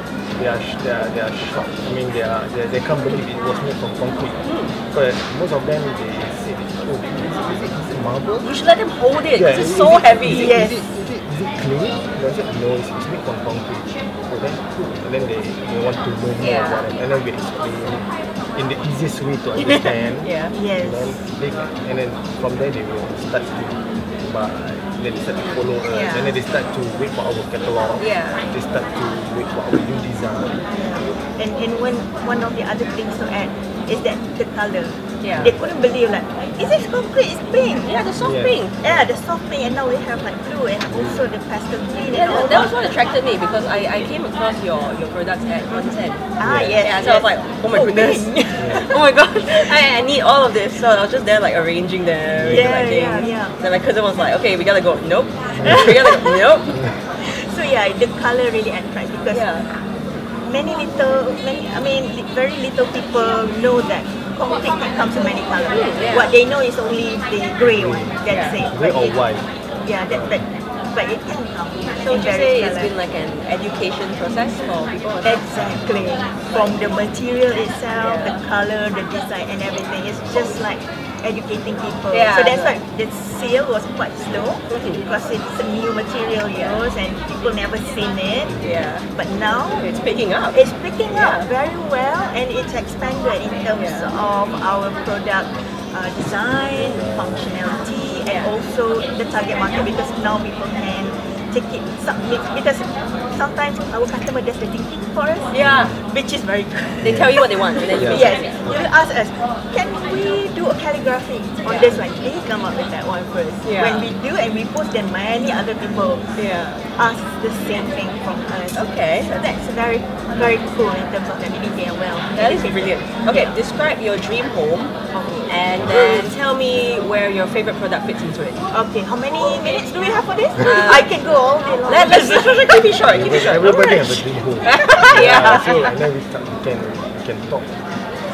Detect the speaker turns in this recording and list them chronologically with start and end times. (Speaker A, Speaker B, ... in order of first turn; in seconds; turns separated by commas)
Speaker A: 0.4-8.5, Speaker B: 4.5-4.8, Speaker B: 8.4-10.6, Speaker A: 9.3-30.6, Speaker C: 10.3-10.9, Speaker B: 16.4-16.9, Speaker B: 19.6-20.5, Speaker C: 20.5-21.2, Speaker B: 25.4-26.4, Speaker B: 28.0-28.5, Speaker C: 30.7-38.0, Speaker B: 35.2-35.6, Speaker B: 37.8-38.8, Speaker A: 38.2-39.1, Speaker C: 38.8-42.8, Speaker A: 40.9-41.2, Speaker B: 42.1-46.2, Speaker C: 45.7-48.9, Speaker A: 46.4-46.8, Speaker B: 46.8-56.8, Speaker A: 52.4-52.9, Speaker C: 52.5-53.6, Speaker C: 56.9-59.5, Speaker B: 59.3-59.7, Speaker C: 60.4-69.2, Speaker B: 65.7-66.3, Speaker A: 66.0-66.3, Speaker A: 67.6-69.5, Speaker B: 68.3-68.6, Speaker C: 69.8-72.9, Speaker A: 70.1-70.4, Speaker B: 72.0-75.4, Speaker C: 75.2-88.6, Speaker B: 78.0-78.4, Speaker B: 82.1-82.8, Speaker B: 84.7-85.0, Speaker B: 86.5-86.8, Speaker A: 88.5-89.0, Speaker B: 88.6-89.1, Speaker C: 89.1-89.9, Speaker B: 89.7-91.5, Speaker C: 90.5-116.3, Speaker B: 93.8-94.1, Speaker A: 96.8-97.2, Speaker B: 105.5-106.0, Speaker A: 105.6-106.0, Speaker B: 107.0-108.8, Speaker A: 107.0-107.3, Speaker A: 108.0-108.8, Speaker B: 111.7-112.0, Speaker B: 113.6-114.1, Speaker B: 116.4-116.8, Speaker C: 117.0-123.6, Speaker B: 118.7-119.3, Speaker B: 122.3-124.9, Speaker C: 125.1-126.3, Speaker B: 125.5-128.7, Speaker C: 128.7-133.1, Speaker B: 130.6-131.1, Speaker B: 131.8-135.9, Speaker A: 133.1-137.8, Speaker C: 134.7-135.9